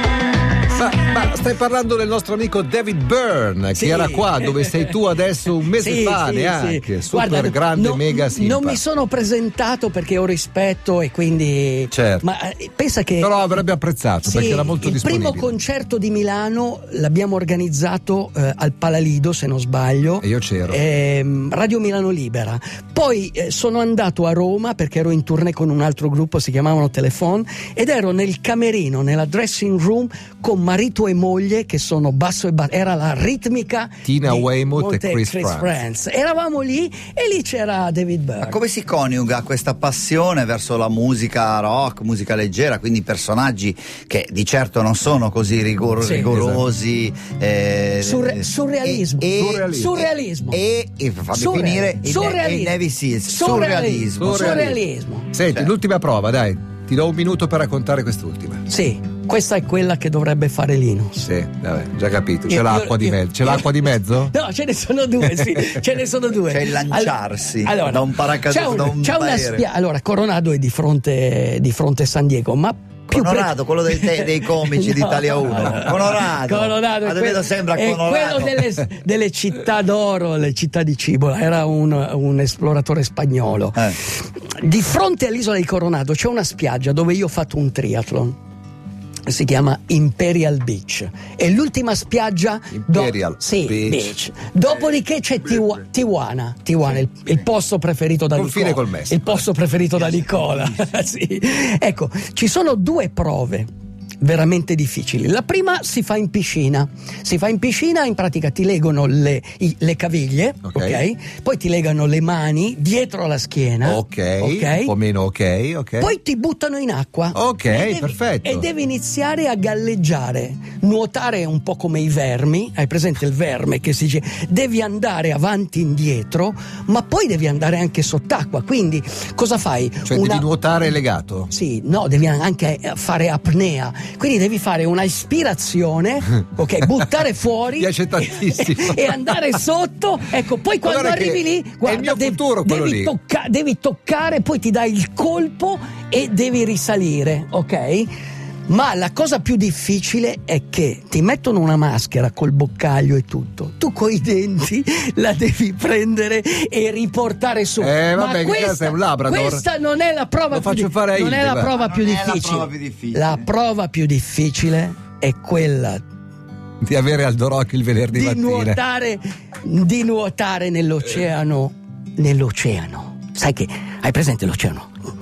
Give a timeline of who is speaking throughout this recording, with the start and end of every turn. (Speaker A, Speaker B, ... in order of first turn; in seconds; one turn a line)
Speaker A: 0.7-8.8
Speaker B: 3.8-4.9
Speaker B: 5.7-13.5
Speaker A: 11.9-12.2
Speaker A: 13.2-15.5
Speaker B: 14.2-38.6
Speaker A: 20.2-20.8
Speaker A: 34.0-35.8
Speaker C: 38.4-54.6
Speaker B: 46.0-46.3
Speaker A: 46.1-46.6
Speaker B: 48.0-50.6
Speaker A: 49.4-50.0
Speaker B: 51.3-55.3
Speaker A: 54.2-54.8
Speaker A: 55.3-58.6
Speaker B: 58.7-61.3
Speaker A: 61.2-64.3
Speaker B: 62.5-88.4
Speaker C: 66.5-69.7
Speaker C: 73.1-78.6
Speaker B: 89.3-103.7
Speaker A: 92.8-94.1
Speaker A: 98.3-99.5
Speaker A: 100.1-100.5
Speaker B: 104.2-114.9
Speaker A: 110.7-111.0
Speaker A: 113.8-116.1
Speaker B: 116.0-130.5
Speaker A: 117.3-118.7
Speaker A: 130.1-131.5
Speaker B: 131.5-148.1
Speaker A: 137.8-139.4
Speaker A: 140.8-143.1
Speaker B: 148.7-166.0
Speaker A: 157.8-159.7
Speaker A: 160.5-161.7
Speaker C: 161.7-163.5
Speaker A: 166.8-168.8
Speaker B: 168.1-174.9